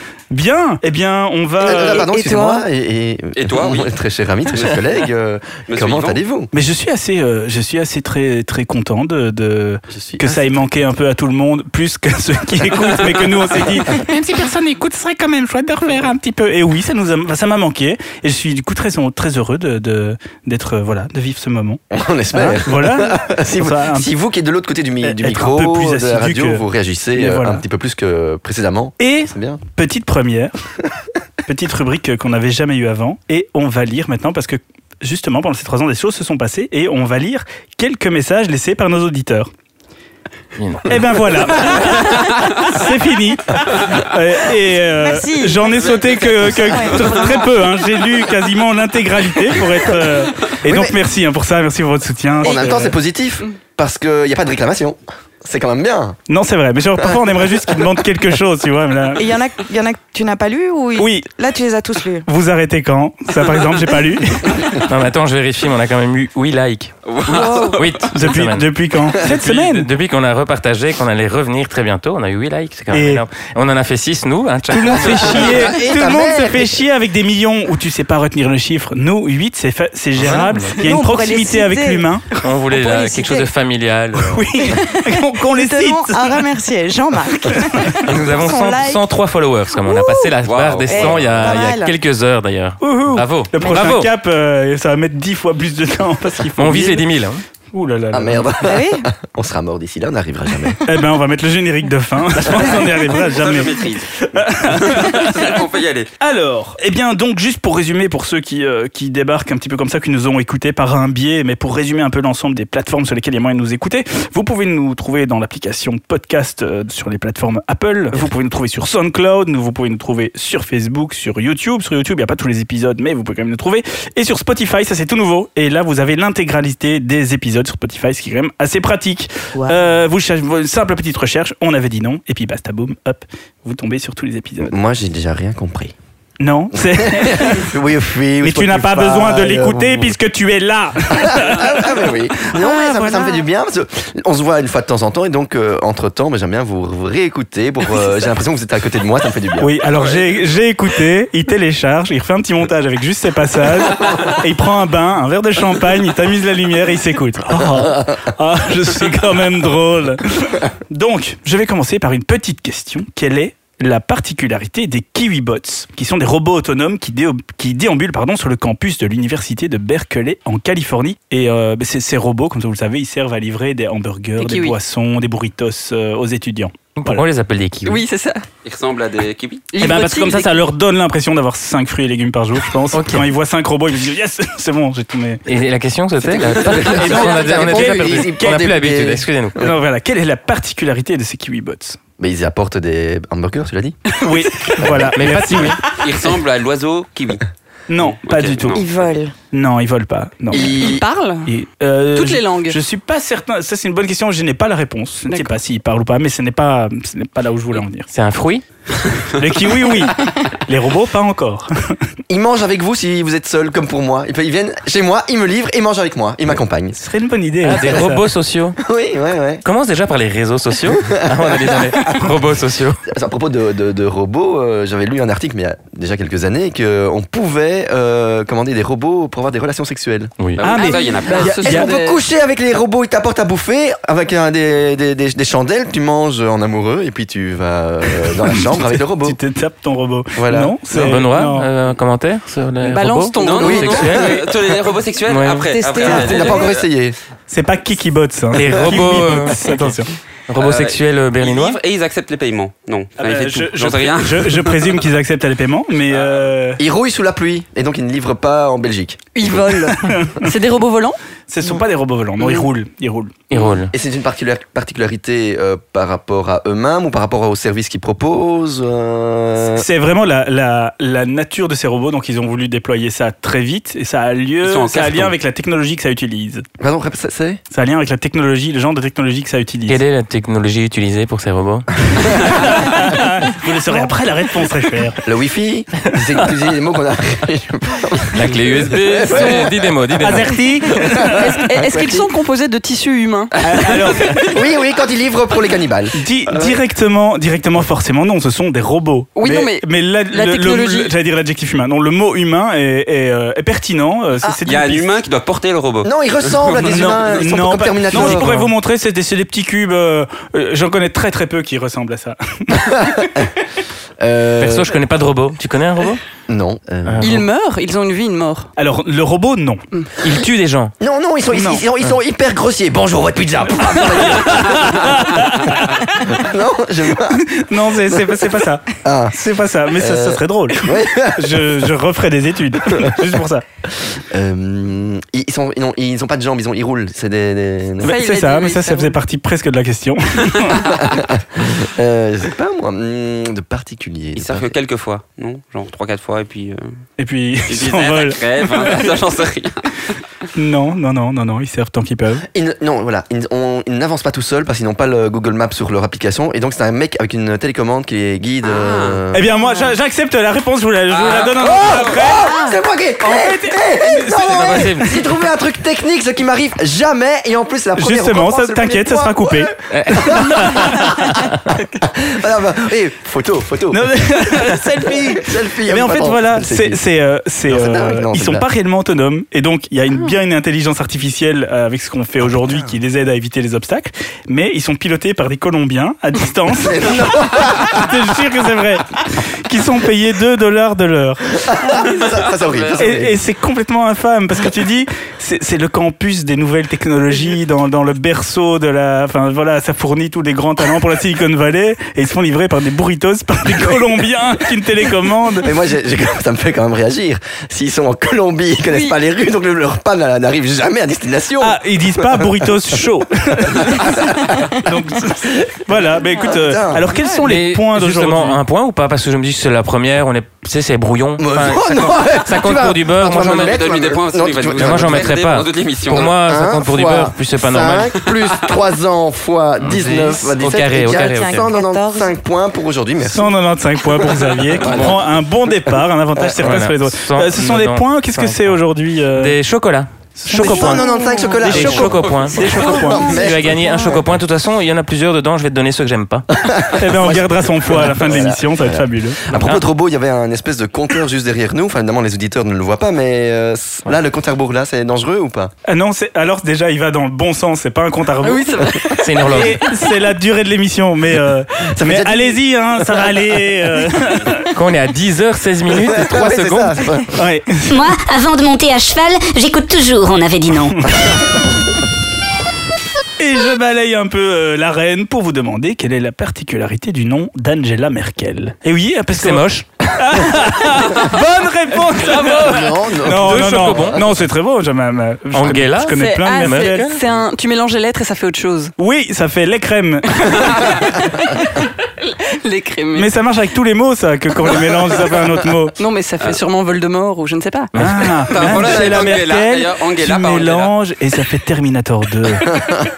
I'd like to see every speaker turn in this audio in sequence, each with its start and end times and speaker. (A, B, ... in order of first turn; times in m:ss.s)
0:00.3-0:02.0 A
0:01.6-0:06.5 B
0:01.7-0:02.6 C
0:03.4-0:03.9 D
0:04.5-0:05.0 D
0:05.7-0:06.2 D
0:06.5-0:21.8 A
0:09.9-0:10.3 B
0:21.9-0:29.6 B
0:22.3-0:24.1 A
0:25.0-0:27.6 A
0:29.0-0:30.5 A
0:31.4-0:39.5 A
0:40.6-0:41.0 E
0:40.8-0:52.9 A
0:41.6-0:42.0 E
0:44.9-0:46.0 C
0:45.7-0:47.4 D
0:46.6-0:47.4 C
0:50.6-0:51.0 B
0:52.4-0:56.2 B
0:52.5-0:52.8 C
0:56.3-0:59.2 A
0:57.0-0:57.3 B
0:59.2-1:02.2 C
1:01.0-1:01.3 A
1:02.2-1:04.8 A
1:04.7-1:15.6 E
1:07.0-1:08.1 D
1:07.3-1:07.8 C
1:08.1-1:09.9 A
1:12.9-1:13.2 A
1:14.7-1:22.3 A
1:15.2-1:16.8 B
1:20.2-1:20.8 E
1:20.7-1:22.0 C
1:22.4-1:24.5 E
1:22.6-1:23.5 C
1:24.1-1:26.4 A
1:24.6-1:29.0 C
1:27.4-1:28.0 A
1:28.0-1:34.1 E
1:29.8-1:30.3 C
1:30.4-1:31.7 D
1:30.9-1:31.9 C
1:32.8-1:37.1 A
1:33.6-1:33.9 C
1:36.6-1:37.4 E
1:37.7-1:38.5 A
1:38.1-1:40.8 B
1:38.6-1:39.1 C
1:40.8-1:45.6 A
1:43.2-1:46.1 D
1:46.2-2:14.7 A
2:14.6-2:15.9 B
2:16.4-2:17.7 A
2:16.7-2:20.1 B
2:18.4-2:22.0 A
2:21.1-2:29.7 B
2:22.5-2:23.5 C
2:29.6-2:57.2 A
2:29.8-2:30.4 D
2:54.4-2:54.8 F
2:57.0-2:58.0 E
2:57.8-2:58.4 F
2:58.6-2:59.7 D
2:59.7-3:00.6 F
2:59.8-3:05.4 A
3:02.9-3:03.3 E
3:05.4-3:09.6 E
3:06.2-3:09.7 B
3:06.7-3:08.6 A
3:09.6-3:12.0 A
3:12.2-3:14.1 B
3:14.2-3:15.8 A
3:14.8-3:16.0 E
3:16.0-3:17.4 D
3:17.9-3:18.8 A
3:18.0-3:19.0 D
3:18.7-3:19.3 C
3:19.5-3:20.7 A
3:20.5-3:21.0 B
3:20.5-3:21.5 F
3:21.4-3:28.1 A
3:22.1-3:22.8 F
3:25.3-3:25.6 F
3:28.1-3:28.6 E
3:29.3-3:31.7 A
3:32.3-3:37.0 B
3:36.9-3:38.0 A
3:37.6-3:38.8 E
3:37.8-3:39.6 B
3:39.6-3:43.0 E
3:40.9-3:42.3 B
3:43.0-3:50.3 B
3:50.4-3:50.8 E
3:50.6-3:52.0 D
3:50.6-3:51.9 A
3:50.8-3:52.2 F
3:51.4-3:59.4 B
3:58.4-4:01.7 A
4:00.4-4:00.9 B
4:00.9-4:04.4 E
4:02.8-4:04.4 F
4:03.4-4:06.8 D
4:03.6-4:04.3 B
4:05.3-4:05.7 E
4:05.7-4:06.7 C
4:06.0-4:07.2 B
4:07.5-4:10.1 A
4:08.5-4:10.0 E
4:10.5-4:11.8 E
4:10.5-4:15.0 D
4:13.2-4:16.8 A
4:16.1-4:16.4 D
4:16.8-4:19.8 B
4:19.3-4:21.2 F
4:20.0-4:20.5 A
4:21.5-4:23.3 A
4:23.5-4:23.9 E
4:23.9-4:29.8 B
4:29.8-4:36.6 A
4:34.6-4:35.3 D
4:36.8-4:37.6 B
4:37.7-4:40.0 A
4:39.9-4:42.4 E
4:42.2-4:45.2 A
4:45.2-4:49.7 B
4:48.3-4:50.6 E
4:48.6-4:49.7 D
4:50.2-4:51.5 A
4:51.2-4:52.3 B
4:51.3-4:54.5 F
4:53.6-4:54.5 A
4:54.5-4:56.8 B
4:56.1-5:05.1 A
4:59.4-5:01.2 F
5:04.6-5:07.4 D
5:06.0-5:08.7 B
5:06.8-5:13.3 A
5:12.8-5:13.5 B
5:14.2-5:15.0 B
5:14.6-5:16.2 E
5:16.5-5:17.4 B
5:17.0-5:17.4 E
5:17.2-5:18.7 F
5:18.8-5:19.8 A
5:20.2-5:20.9 E
5:21.0-5:27.5 B
5:21.5-5:21.8 A
5:24.0-5:26.3 A
5:27.3-5:33.6 A
5:28.1-5:28.4 B
5:29.0-5:29.3 B
5:29.9-5:31.8 B
5:32.9-5:33.2 B
5:34.1-5:38.2 B
5:38.0-5:39.2 F
5:38.0-5:40.9 A
5:40.9-5:44.7 B
5:44.4-5:47.0 D
5:47.2-5:49.1 A
5:47.7-5:49.9 D
5:50.5-5:52.4 A
5:52.5-5:59.5 B
5:58.7-5:59.2 D
5:59.3-6:02.6 A
6:01.1-6:02.4 D
6:01.8-6:17.0 B
6:03.2-6:05.1 A
6:04.4-6:05.1 E
6:08.0-6:09.7 A
6:09.9-6:10.9 E
6:10.5-6:11.0 A
6:13.9-6:31.5 A
6:17.7-6:18.6 B
6:22.6-6:22.9 B
6:26.8-6:28.2 B
6:31.6-6:33.4 B
6:32.4-6:33.2 D
6:33.0-6:45.7 A
6:43.7-6:44.0 B
6:45.6-6:52.7 B
6:48.9-6:49.2 F
6:51.6-6:58.6 A
6:53.9-6:54.2 B
6:56.4-6:57.1 B
6:57.4-7:03.8 E
7:01.4-7:05.4 B
7:03.4-7:06.4 D
7:04.7-7:08.2 E
7:06.1-7:13.5 B
7:09.8-7:11.7 E
7:10.9-7:12.3 C
7:13.2-7:19.6 A
7:14.2-7:15.2 B
7:14.8-7:15.2 E
7:16.4-7:16.6 B
7:16.6-7:18.8 E
7:19.3-7:21.0 E
7:20.4-7:21.0 A
7:20.5-7:24.4 B
7:20.7-7:22.0 C
7:21.6-7:26.4 E
7:21.7-7:23.3 A
7:22.8-7:24.2 C
7:26.5-7:35.7 B
7:26.9-7:29.4 A
7:29.5-7:29.8 E
7:35.8-7:44.7 A
7:38.4-7:39.7 F
7:39.2-7:39.8 E
7:41.9-7:42.6 B
7:44.7-7:47.1 E
7:45.9-7:47.3 B
7:47.3-7:47.9 A
7:47.9-7:51.4 G
7:50.8-7:51.1 A
7:53.4-8:07.1 A
7:59.3-7:59.9 E
8:02.4-8:04.2 B
8:03.3-8:04.2 E
8:05.5-8:07.2 E
8:06.1-8:08.9 F
8:09.0-8:11.0 A
8:12.2-8:13.3 F
8:13.1-8:15.9 A
8:16.0-8:17.9 F
8:17.9-8:18.9 E
8:17.9-8:22.8 A
8:18.4-8:20.9 D
8:22.7-8:23.1 B